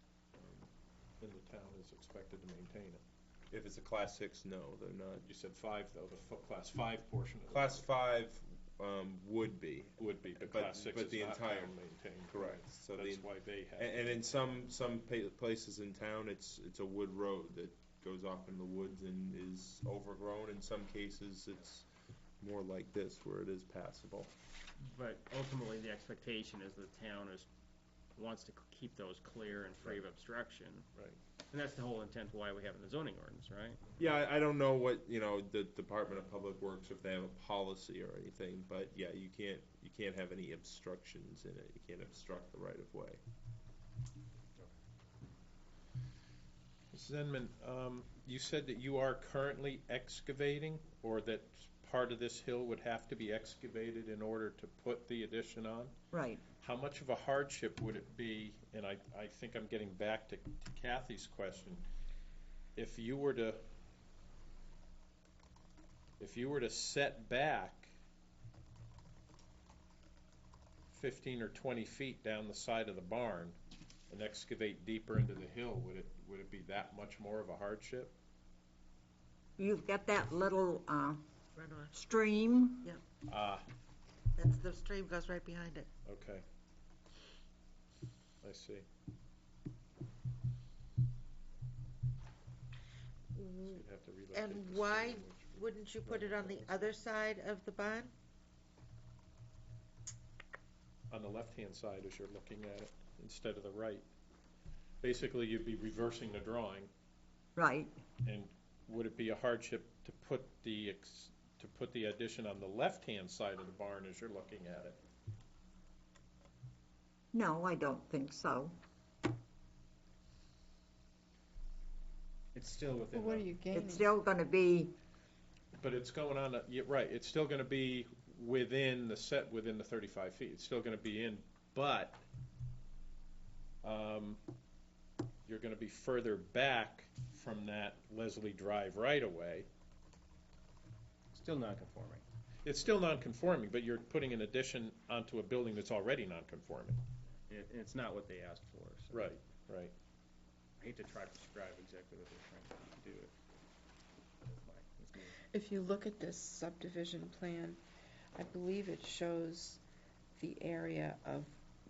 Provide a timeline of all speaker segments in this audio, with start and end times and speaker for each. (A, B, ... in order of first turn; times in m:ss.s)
0:00.4-0:00.7 A
0:01.2-0:03.0 A
0:03.5-0:05.3 B
0:05.2-0:07.9 A
0:07.5-0:11.8 B
0:10.0-0:14.3 A
0:12.3-0:21.9 B
0:22.4-0:24.3 B
0:24.8-0:27.5 C
0:28.2-0:30.9 C
0:31.5-0:34.0 C
0:34.0-0:43.2 B
0:46.9-0:56.0 A
0:56.1-0:56.4 D
0:56.6-1:01.8 A
1:02.8-1:03.6 A
1:06.2-1:07.9 A
1:10.9-1:13.6 A
1:14.1-1:18.1 A
1:19.6-1:21.2 D
1:21.6-1:22.0 E
1:21.9-1:22.9 D
1:23.3-1:23.7 A
1:24.4-1:25.9 E
1:26.1-1:26.4 A
1:28.4-1:28.8 A
1:33.4-1:36.9 A
1:34.3-1:38.1 E
1:41.1-1:44.1 A
1:45.0-1:46.9 A
1:47.6-1:48.0 D
1:48.2-1:55.0 A
1:57.3-1:58.8 D
2:02.5-2:03.6 C
2:03.1-2:04.1 F
2:03.7-2:04.9 D
2:05.8-2:12.2 A
2:13.8-2:14.4 A
2:15.4-2:19.7 A
2:21.3-2:22.2 C
2:22.6-2:27.0 A
2:27.5-2:29.3 C
2:29.1-2:29.9 A
2:30.8-2:33.3 C
2:34.5-2:35.4 C
2:35.5-2:37.8 F
2:38.4-2:39.8 F
2:40.4-2:41.6 F